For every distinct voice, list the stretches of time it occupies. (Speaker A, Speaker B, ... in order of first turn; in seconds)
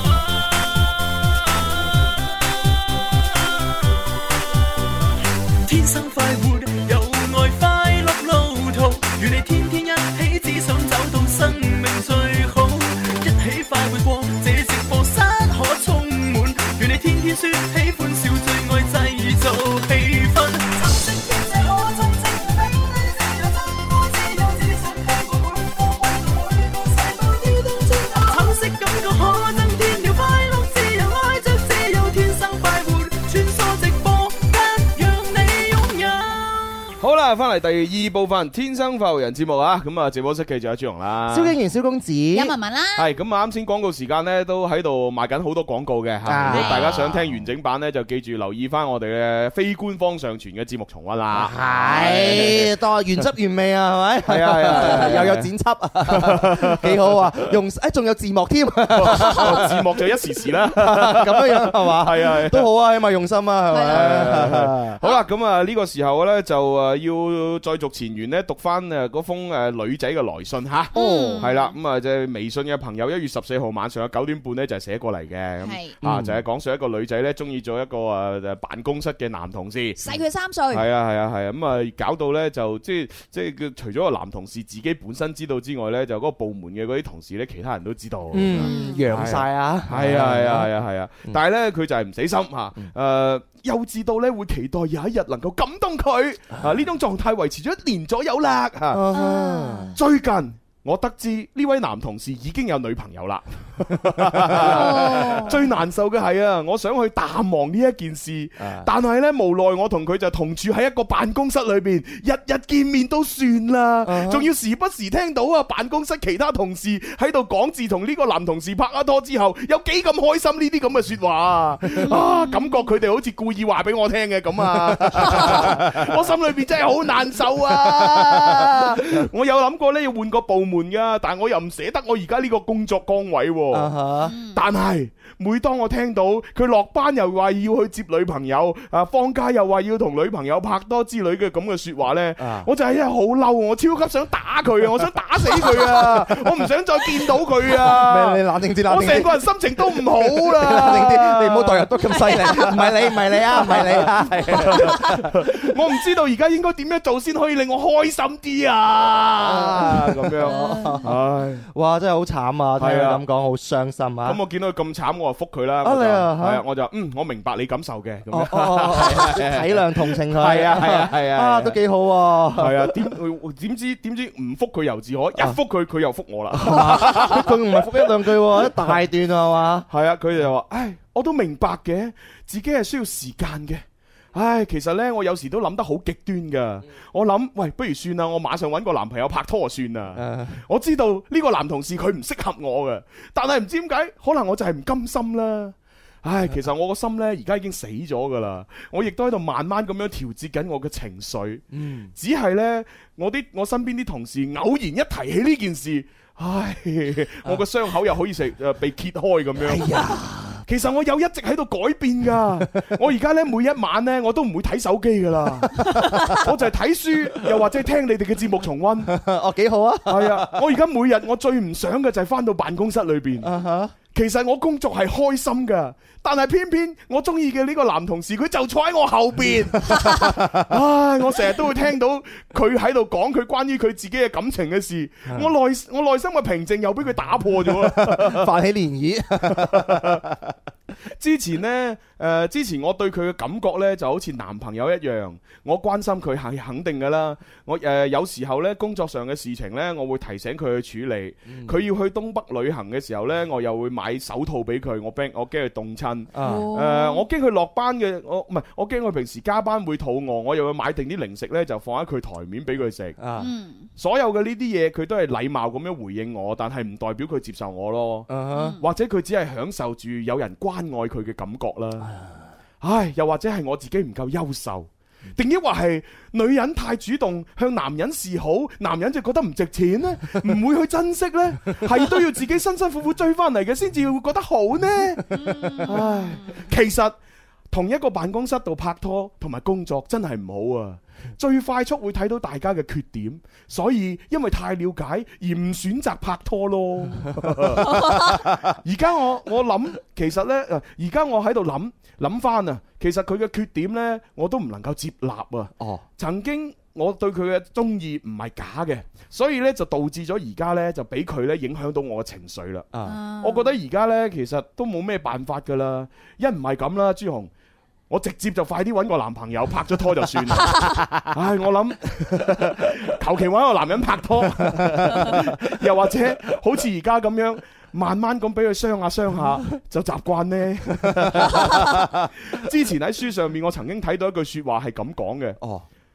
Speaker A: 5.6-36.8
Speaker B: 37.0-41.6, 43.0-52.7, 54.2-55.5, 56.1-57.1, 58.9-62.7, 63.8-80.2, 80.7-99.0, 100.0-133.9, 134.5-152.9, 153.5-161.7, 162.8-163.2, 164.2-171.8, 172.5-178.9, 179.9-219.1, 220.1-223.5, 224.1-238.5, 239.5-240.2, 241.2-263.2, 264.0-272.1, 272.8-287.1, 287.7-312.9, 313.4-317.5, 318.1-335.6
Speaker C: 41.3-42.5, 46.2-46.9, 51.3-59.7, 60.7-65.0, 70.9-71.5, 76.0-76.4, 88.3-90.7, 98.9-99.9, 104.2-105.4, 108.6-108.9, 114.0-114.5, 124.8-126.1, 127.9-128.5, 133.7-134.3, 142.4-142.7, 145.6-146.5, 147.8-155.3, 159.4-161.1, 161.7-164.4, 165.8-166.6, 168.3-173.0, 176.5-179.9, 190.2-190.6, 201.7-202.1, 209.6-210.6, 215.7-216.4, 219.1-220.6, 223.4-223.9, 229.9-230.6, 237.7-240.5, 251.5-251.7, 256.3-256.7, 263.2-263.5, 268.3-268.8, 297.4-298.5, 305.8-306.0, 312.9-313.2, 324.7-325.4, 331.1-332.3, 335.6-335.9
Speaker D: 42.3-43.1, 46.5-47.2, 63.7-64.4, 70.9-71.7, 75.6-75.9, 80.0-80.8, 88.5-89.0, 99.1-99.9, 104.6-105.6, 122.0-122.9, 134.2-134.6, 152.1-152.8, 154.5-155.1, 160.5-161.0, 256.4-257.2, 263.4-263.9, 268.5-268.8, 285.3-286.6, 313.0-313.7